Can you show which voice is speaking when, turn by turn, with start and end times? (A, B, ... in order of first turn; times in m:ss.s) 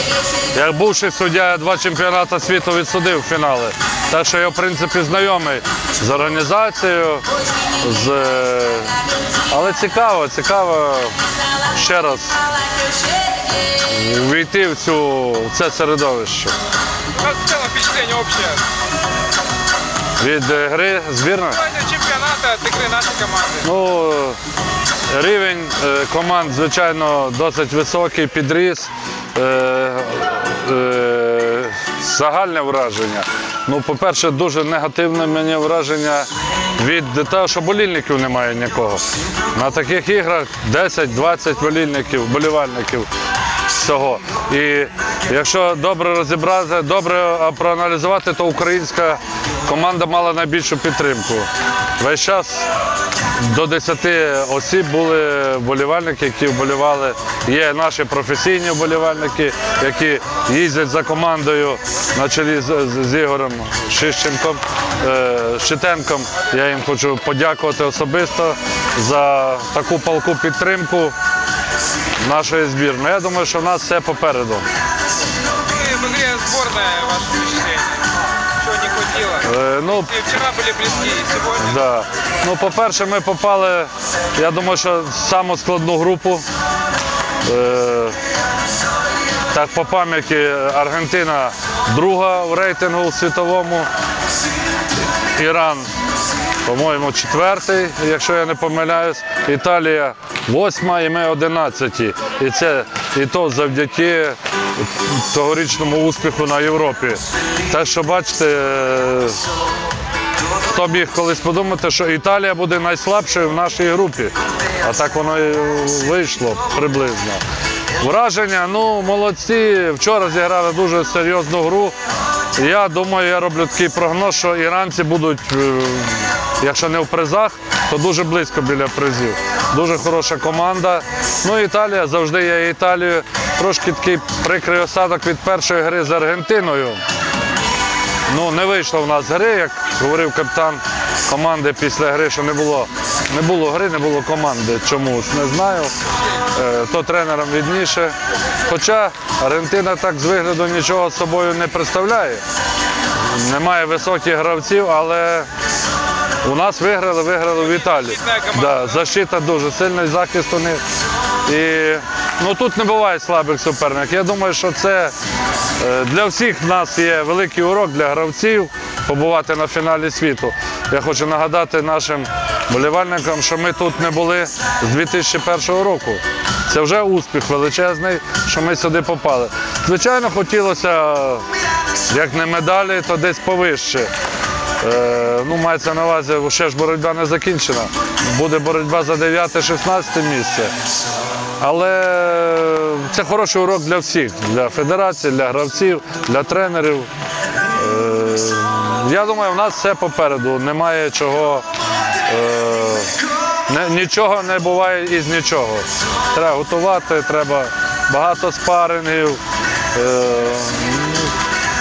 0:00.5-0:07.2 A
0:07.8-0:11.1 A
0:11.7-0:12.4 A
0:13.7-0:16.5 A
0:17.1-0:18.7 B
0:20.2-0:21.6 A
0:21.6-0:23.7 B
0:23.6-0:24.4 A
0:25.1-0:43.1 A
0:43.7-0:52.7 A
0:53.3-1:11.1 A
1:12.2-1:14.6 A
1:15.7-1:21.8 B
1:19.4-1:20.1 A
1:21.6-1:26.4 A
1:27.4-1:28.2 A
1:29.5-1:33.9 A
1:35.3-1:35.9 A
1:36.6-1:49.4 A
1:50.7-1:57.4 A
1:58.0-2:02.0 A
2:02.6-2:17.0 A
2:18.3-2:25.9 A
2:26.5-2:28.2 A
2:28.7-2:32.4 A
2:33.2-2:35.5 A
2:36.4-2:40.8 A
2:37.8-2:38.9 B
2:41.5-2:45.1 A
2:45.8-3:01.5 A
3:02.1-3:04.1 A
3:04.8-3:10.7 A
3:11.6-3:17.1 A
3:17.7-3:21.6 A
3:22.3-3:23.1 A
3:23.7-3:29.4 A
3:29.9-3:31.3 A